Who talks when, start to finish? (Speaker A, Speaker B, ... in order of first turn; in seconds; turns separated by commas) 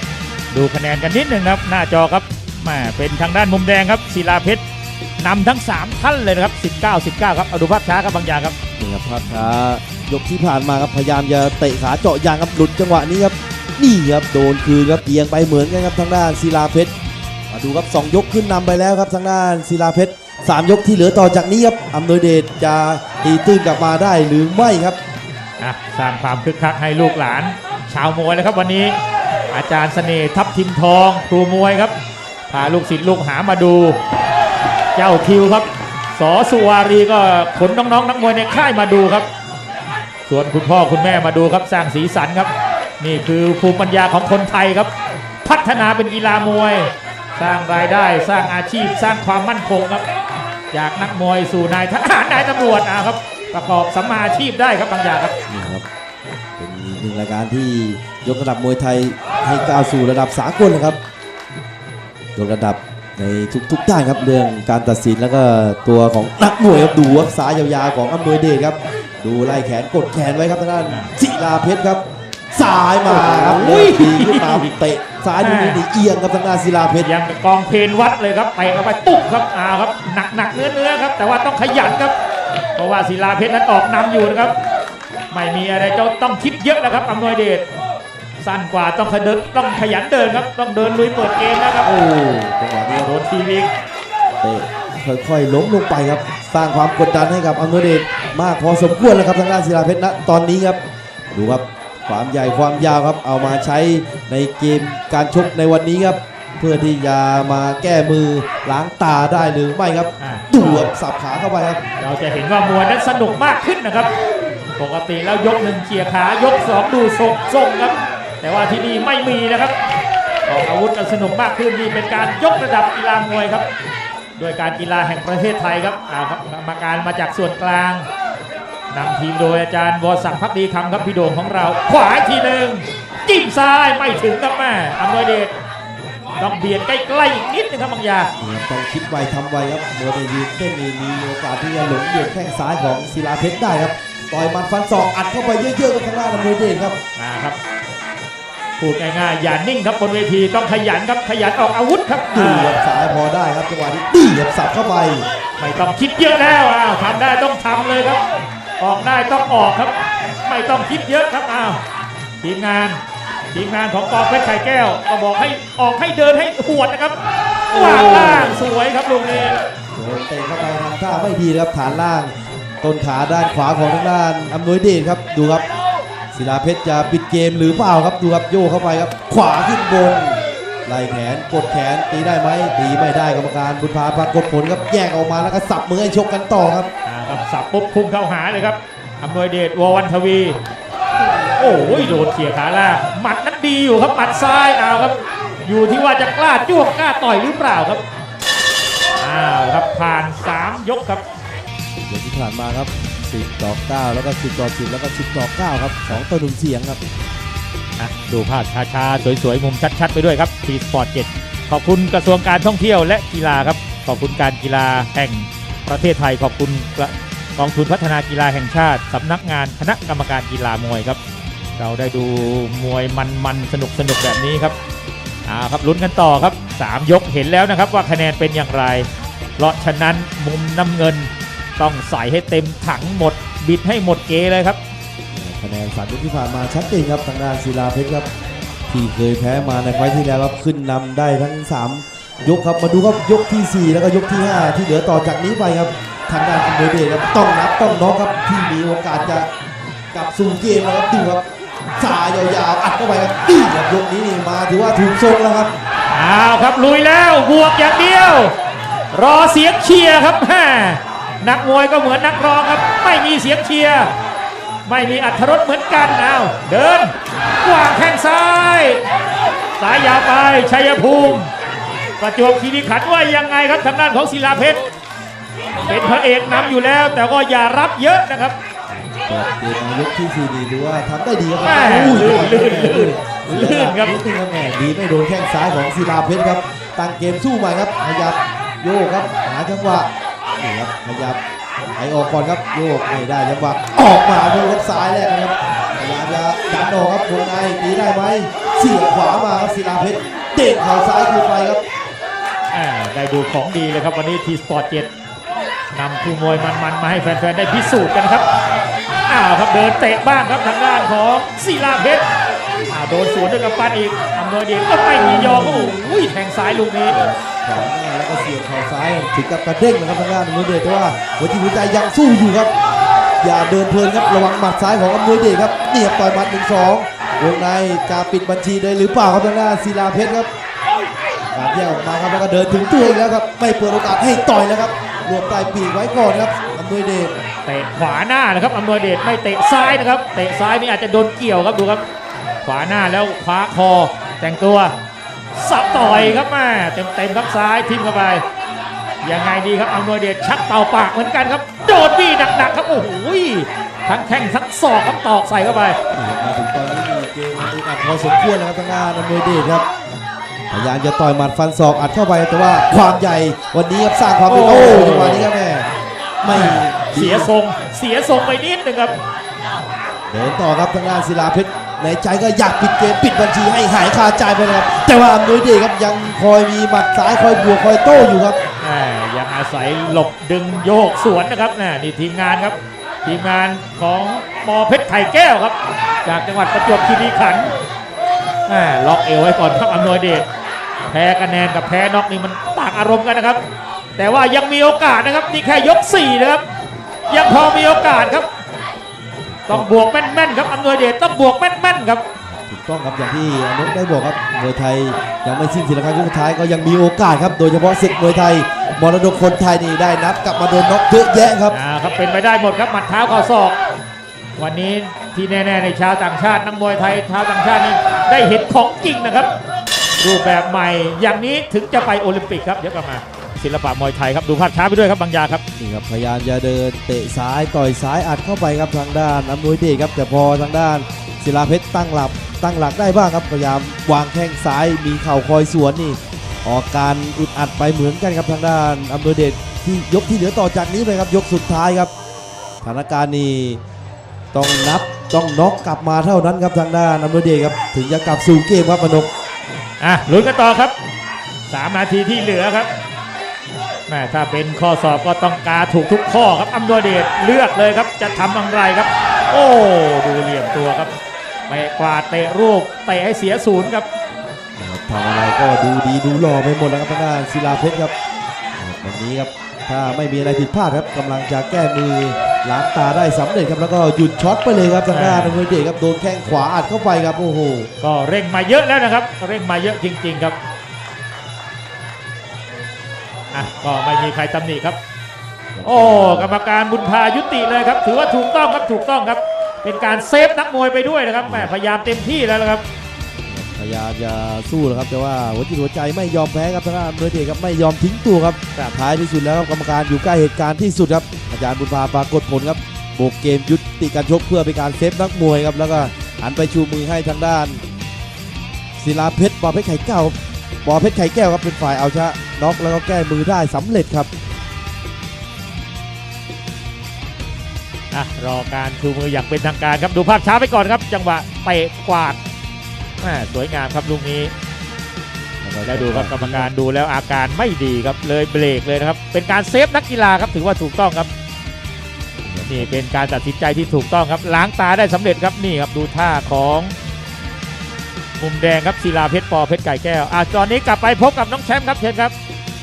Speaker A: 0.5-4.6, Speaker A: 5.2-8.6, Speaker B: 8.8-16.9, Speaker B: 17.5-25.0, Speaker A: 25.6-29.0, Speaker A: 29.5-31.9, Speaker A: 32.5-34.0, Speaker A: 35.0-39.3, Speaker A: 40.3-42.5, Speaker A: 43.0-44.9, Speaker A: 45.4-50.0, Speaker A: 50.7-55.4, Speaker B: 55.5-55.9, Speaker B: 56.6-61.0, Speaker B: 62.4-77.1, Speaker A: 73.1-74.7, Speaker A: 75.4-75.8, Speaker A: 77.0-82.1, Speaker A: 82.8-84.5, Speaker A: 85.3-87.7, Speaker A: 88.4-91.9, Speaker B: 91.8-93.1, Speaker A: 92.9-93.7, Speaker B: 94.4-100.8, Speaker B: 101.3-111.8, Speaker A: 110.2-110.9, Speaker A: 112.0-114.1, Speaker A: 114.8-119.7, Speaker A: 120.5-123.7, Speaker A: 124.4-128.1, Speaker A: 128.9-135.5, Speaker A: 136.4-138.3, Speaker B: 138.4-147.0, Speaker A: 147.2-147.6, Speaker A: 148.8-152.8, Speaker B: 152.3-155.3, Speaker A: 155.6-158.2, Speaker A: 158.8-161.8, Speaker A: 162.4-163.0, Speaker A: 163.5-167.2, Speaker B: 167.7-168.7, Speaker A: 167.7-169.6, Speaker B: 169.9-175.7, Speaker B: 176.3-186.9, Speaker A: 187.1-190.6, Speaker B: 191.2-192.2, Speaker A: 191.6-198.0, Speaker A: 199.2-201.2, Speaker B: 202.1-207.0, Speaker A: 208.0-221.2, Speaker A: 221.8-224.8, Speaker A: 225.5-229.1, Speaker A: 229.6-234.8, Speaker B: 235.3-238.3, Speaker B: 238.9-249.5, Speaker B: 250.1-251.4, Speaker B: 252.0-255.7, Speaker A: 256.1-258.5, Speaker A: 259.1-264.1, Speaker A: 264.9-269.0, Speaker A: 269.8-271.5, Speaker A: 272.2-274.8, Speaker A: 275.8-278.6, Speaker B: 278.9-291.4, Speaker A: 281.6-284.2, Speaker B: 292.0-301.8, Speaker A: 302.7-305.1, Speaker A: 305.9-308.4, Speaker A: 309.3-312.3, Speaker A: 312.9-317.2, Speaker B: 315.2-316.0, Speaker B: 317.1-322.7, Speaker B: 323.4-330.5, Speaker B: 331.5-337.4, Speaker A: 337.7-342.0, Speaker A: 342.6-344.9, Speaker A: 345.5-348.4, Speaker B: 345.9-346.5, Speaker A: 349.2-356.0, Speaker B: 356.1-359.9, Speaker B: 360.7-365.9, Speaker A: 364.5-365.5, Speaker B: 366.4-367.5, Speaker A: 366.5-369.1, Speaker B: 370.3-378.6, Speaker A: 378.8-387.7, Speaker A: 388.7-390.5, Speaker A: 391.1-393.6, Speaker A: 394.2-396.6, Speaker A: 397.3-398.5, Speaker B: 399.5-399.9, Speaker A: 399.7-402.2, Speaker B: 402.4-411.8, Speaker A: 411.7-413.8, Speaker A: 414.6-419.5, Speaker A: 420.2-425.6, Speaker B: 425.8-442.1, Speaker B: 442.8-443.8, Speaker B: 444.5-449.3, Speaker A: 450.0-450.9, Speaker A: 451.7-452.9, Speaker A: 454.1-461.1, Speaker A: 461.7-464.1, Speaker B: 464.8-468.1, Speaker B: 468.8-477.9, Speaker A: 475.1-475.6, Speaker A: 478.0-480.6, Speaker A: 483.5-485.0, Speaker B: 485.7-486.5, Speaker A: 485.8-492.8, Speaker B: 491.4-491.7, Speaker B: 493.5-507.8, Speaker B: 509.0-514.3, Speaker A: 518.1-522.4, Speaker A: 523.2-524.5, Speaker B: 525.6-526.7, Speaker A: 525.9-531.3, Speaker B: 532.4-532.9, Speaker A: 532.7-536.9, Speaker A: 538.4-542.3